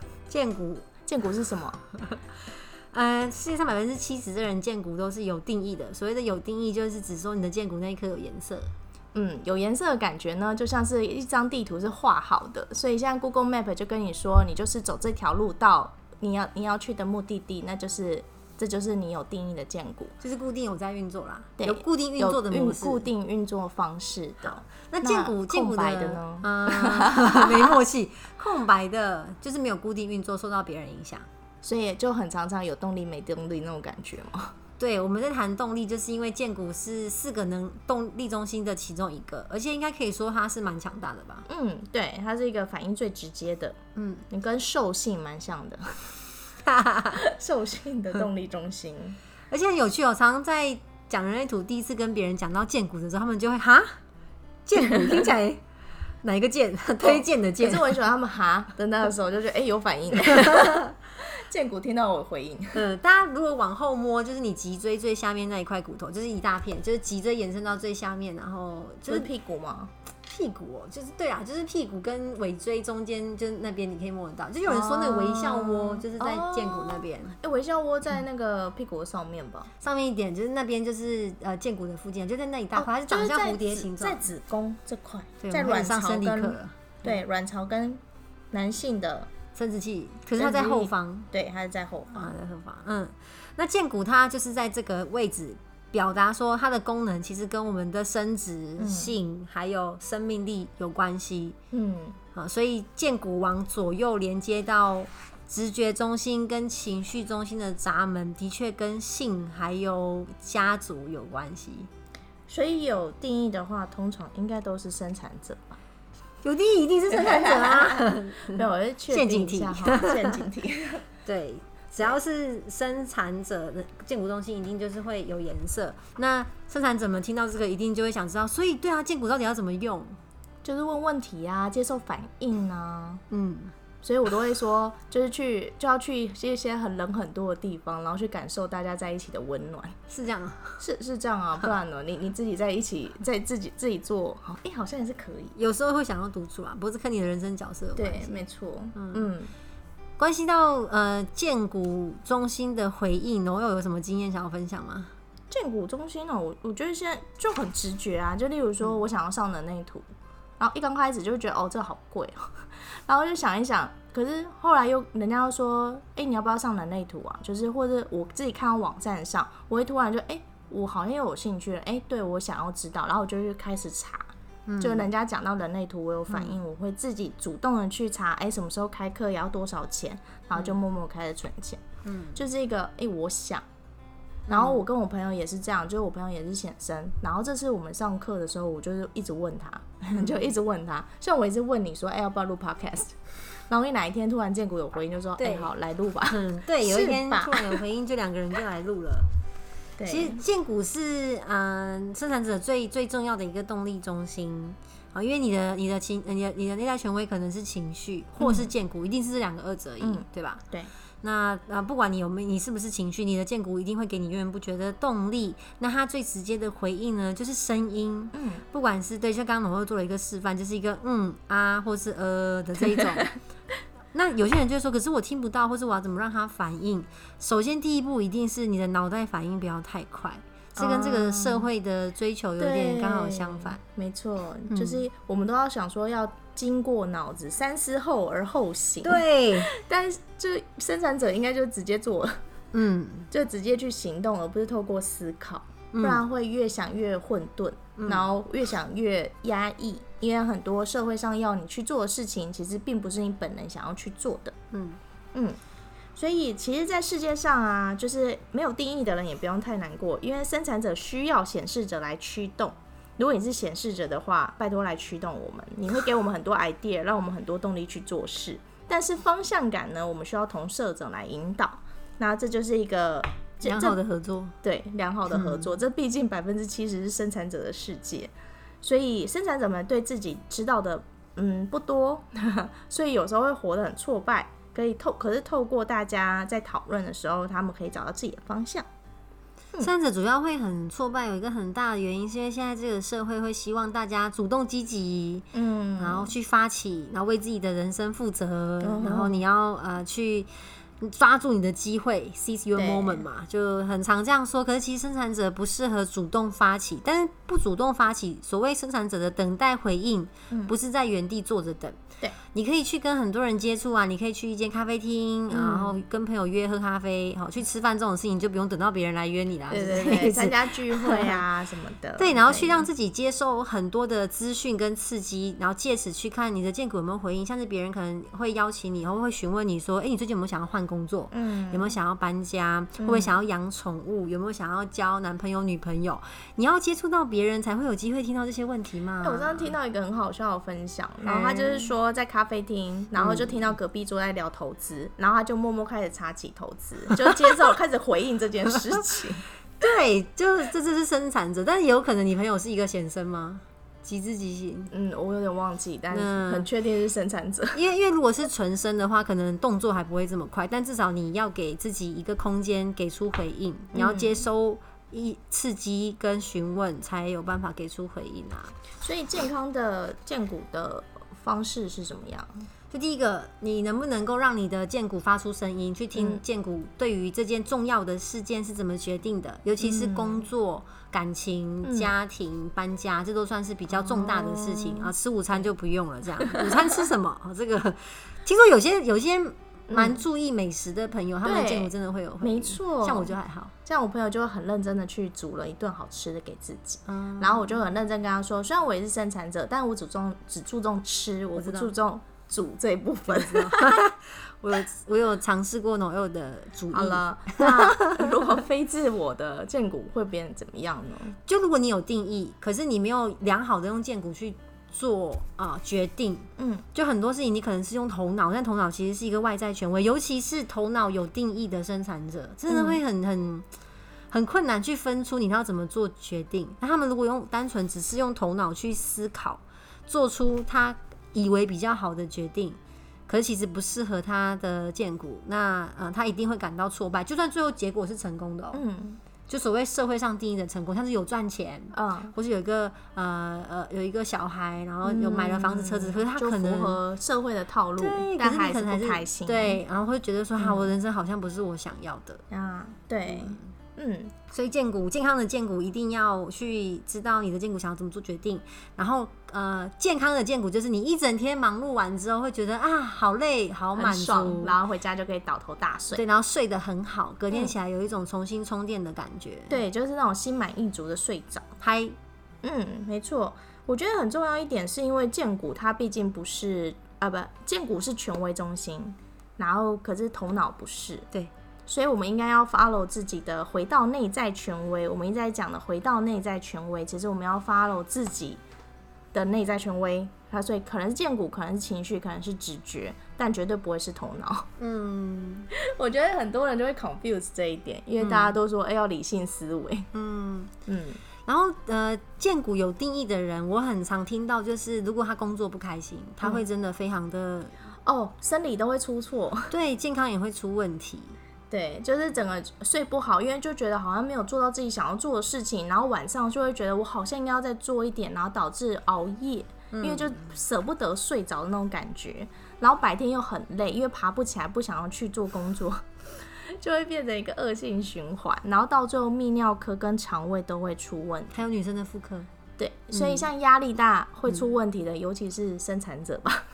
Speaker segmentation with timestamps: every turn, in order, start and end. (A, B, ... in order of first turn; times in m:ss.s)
0:00.3-0:00.9 A
0:01.1-0:01.8 B
0:02.9-0:08.7 A
0:09.1-0:20.1 B
0:20.2-0:23.1 A
0:21.6-0:27.8 B
0:24.9-0:31.3 A
0:31.6-0:34.6 B
0:34.8-0:41.4 A
0:41.5-0:43.8 B
0:44.0-0:44.2 A
0:44.3-0:46.1 B
0:46.6-0:47.2 A
0:47.2-0:49.2 B
0:49.5-0:53.9 A
0:54.7-0:55.6 A
0:56.2-0:57.9 A
0:57.0-1:02.8 B
1:00.4-1:00.9 A
1:02.7-1:09.3 A
1:09.1-1:09.9 B
1:10.3-1:17.4 A
1:14.7-1:19.7 B
1:19.8-1:24.2 A
1:22.8-1:28.0 B
1:25.4-1:27.2 A
1:28.5-1:29.3 B
1:29.6-1:31.3 A
1:30.4-1:32.3 B
1:32.1-1:41.6 A
1:38.8-1:39.2 B
1:41.7-1:42.2 B
1:42.3-1:51.9 A
1:52.5-1:55.8 B
1:56.4-2:00.2 A
1:57.1-2:01.0 B
2:01.3-2:10.1 A
2:10.6-2:13.2 B
2:13.3-2:13.7 A
2:14.0-2:20.0 B
2:20.1-2:20.8 A
2:20.8-2:25.6 B
2:25.6-2:28.4 A
2:28.0-2:29.5 B
2:28.9-2:29.3 A
2:30.2-2:35.1 A
2:35.5-2:40.0 B
2:40.6-3:01.8 B
2:54.7-2:55.1 A
2:56.3-2:56.6 A
3:02.0-3:02.4 A
3:02.4-3:03.6 B
3:04.5-3:04.8 A
3:04.5-3:13.2 B
3:10.2-3:10.4 A
3:13.7-3:17.8 B
3:15.4-3:15.7 A
3:16.2-3:19.3 A
3:20.0-3:20.4 B
3:20.1-3:30.6 A
3:28.4-3:28.7 B
3:30.0-3:30.9 B
3:31.2-3:43.3 A
3:38.3-3:38.6 B
3:42.8-3:43.3 B
3:44.1-3:53.8 A
3:50.8-3:51.7 B
3:52.6-4:02.4 B
3:54.7-3:55.0 A
3:59.0-3:59.7 A
4:02.7-4:03.3 A
4:03.3-4:14.6 B
4:05.9-4:06.2 A
4:08.0-4:08.2 A
4:14.7-4:15.0 A
4:16.2-4:34.0 B
4:33.6-4:34.5 A
4:34.6-4:48.9 B
4:35.3-4:35.8 A
4:49.8-5:12.0 A
4:55.5-4:56.3 B
4:58.8-4:59.4 B
5:02.8-5:03.2 B
5:10.5-5:10.8 B
5:12.5-5:21.4 A
5:15.5-5:15.9 B
5:19.7-5:22.9 B
5:22.2-5:39.8 A
5:31.3-5:31.9 B
5:33.0-5:33.4 B
5:39.2-5:49.4 B
5:41.2-5:41.9 A
5:43.2-5:43.6 A
5:49.8-5:54.9 A
5:54.9-5:57.8 B
5:56.1-5:56.7 A
5:57.7-6:08.8 A
6:03.9-6:04.4 B
6:09.0-6:12.5 B
6:12.9-6:33.7 A
6:16.2-6:16.4 B
6:19.8-6:20.4 B
6:21.8-6:22.1 B
6:23.9-6:25.1 B
6:29.9-6:30.2 B
6:31.4-6:43.9 B
6:37.1-6:37.7 A
6:41.6-6:41.9 A
6:43.3-6:48.5 A
6:46.9-6:51.4 B
6:51.4-7:03.7 A
6:56.6-6:56.8 B
7:02.7-7:03.0 B
7:04.3-7:18.8 A
7:18.7-7:19.2 B
7:19.5-7:27.0 A
7:21.9-7:22.3 B
7:25.0-7:29.8 B
7:28.0-7:32.4 A
7:30.6-7:30.9 B
7:32.5-7:34.4 B
7:33.3-7:33.6 A
7:34.5-7:44.8 A
7:43.9-7:46.2 B
7:46.1-7:49.8 A
7:49.7-7:51.7 B
7:51.8-7:52.2 A
7:52.6-8:01.2 B
8:01.9-8:08.6 B
8:09.3-8:14.7 B
8:14.8-8:15.7 A
8:15.8-8:20.1 B
8:18.2-8:18.6 A
8:20.1-8:20.7 A
8:20.9-8:21.2 B
8:21.4-8:27.7 A
8:28.1-8:29.7 B
8:29.7-8:31.4 A
8:31.7-8:51.6 B
8:39.9-8:40.4 A
8:51.5-8:52.5 A
8:52.8-8:56.6 B
8:53.1-8:53.5 A